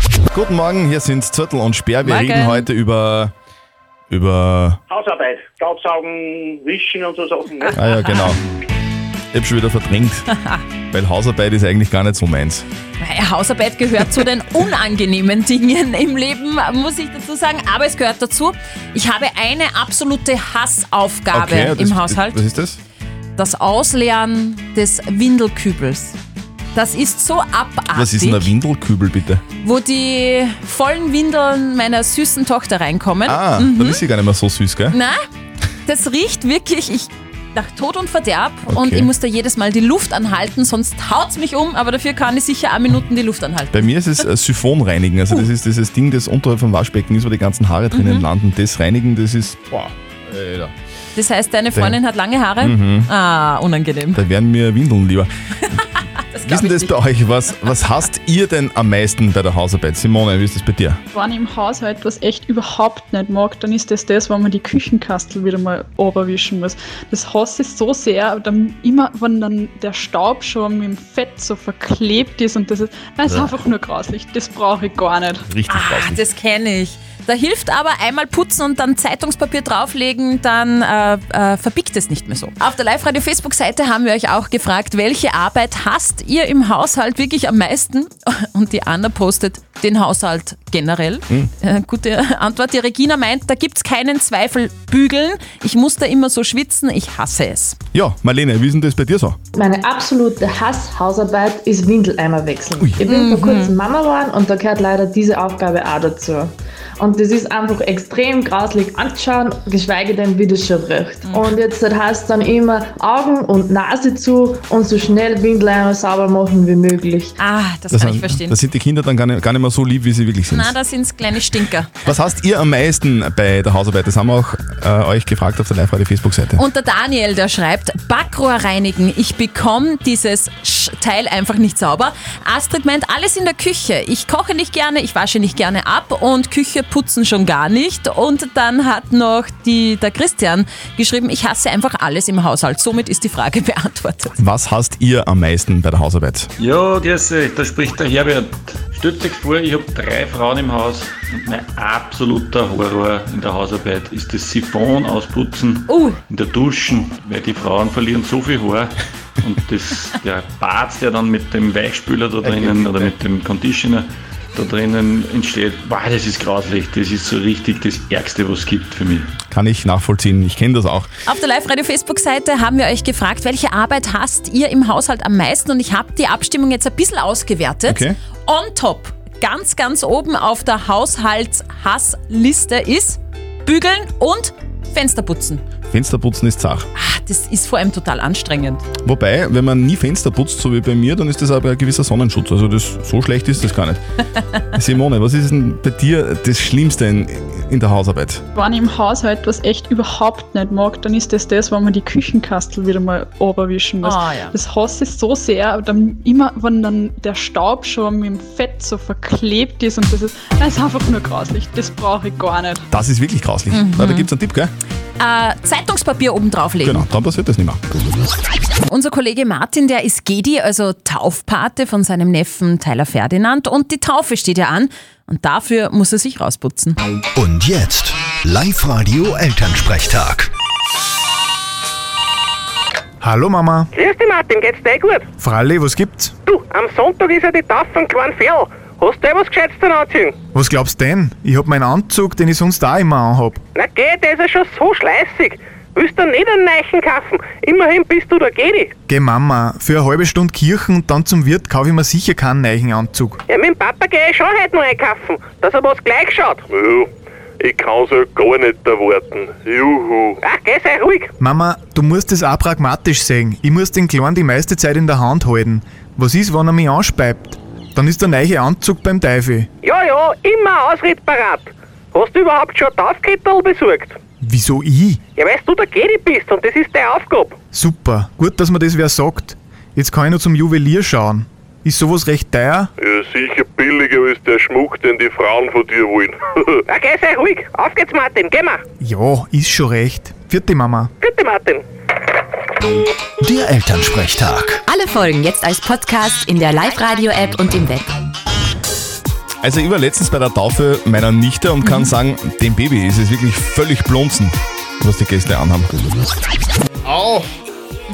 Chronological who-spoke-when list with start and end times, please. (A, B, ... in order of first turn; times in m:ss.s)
0:00.3-0:03.3 A
0:02.0-0:02.7 B
0:04.1-0:04.8 A
0:04.9-0:07.7 C
0:07.7-0:08.4 A
0:08.0-0:08.3 B
0:09.3-0:10.2 A
0:10.9-0:12.6 A
0:13.0-0:22.4 B
0:21.3-0:22.8 A
0:23.4-0:26.2 B
0:26.7-0:28.5 B
0:27.9-0:29.4 A
0:29.6-0:34.0 B
0:33.2-0:35.0 A
0:34.9-0:35.2 B
0:35.8-0:43.9 B
0:38.7-0:39.1 A
0:43.7-0:50.7 A
0:47.9-0:48.3 B
0:51.2-0:54.2 B
0:52.6-0:53.1 A
0:54.1-0:55.8 A
0:56.1-0:56.9 B
0:56.4-1:01.0 A
1:01.1-1:15.4 D
1:13.3-1:13.5 A
1:15.5-1:16.2 A
1:15.7-1:37.8 B
1:37.9-1:39.4 A
1:39.5-1:57.3 E
1:43.0-1:43.7 B
1:51.2-1:51.5 B
1:57.4-1:58.6 B
1:57.9-2:00.7 A
2:00.5-2:02.0 B
2:02.0-2:06.6 A
2:06.6-2:24.4 B
2:24.4-2:26.5 A
2:26.6-2:49.3 F
2:35.9-2:36.2 B
2:49.5-2:51.1 A
2:51.2-3:05.6 B
2:57.8-2:58.2 A
3:05.9-3:06.9 A
3:06.9-3:08.8 B
3:09.0-3:14.0 A
3:14.6-3:18.4 A
3:18.5-3:32.8 D
3:24.0-3:24.5 B
3:32.9-3:34.7 A
3:33.7-3:34.3 B
3:35.2-3:37.0 B
3:36.8-3:37.8 A
3:38.9-3:47.0 B
3:47.3-3:50.5 G
3:53.2-3:53.9 H
3:53.9-3:55.3 I
3:55.4-3:56.3 H
3:56.4-4:00.4 I
4:00.5-4:03.6 H
4:03.7-4:08.9 I
4:09.1-4:13.4 H
4:13.5-4:21.3 I
4:21.4-4:29.7 H
4:29.8-4:34.2 I
4:34.4-4:35.2 H
4:35.4-4:37.6 I
4:37.7-4:42.9 H
4:43.0-4:48.8 I
4:49.0-4:51.1 H
4:51.2-4:51.8 I
4:53.4-4:54.8 G
4:54.9-4:58.1 J
4:59.6-5:05.9 A
5:01.8-5:02.1 B
5:07.0-5:07.5 A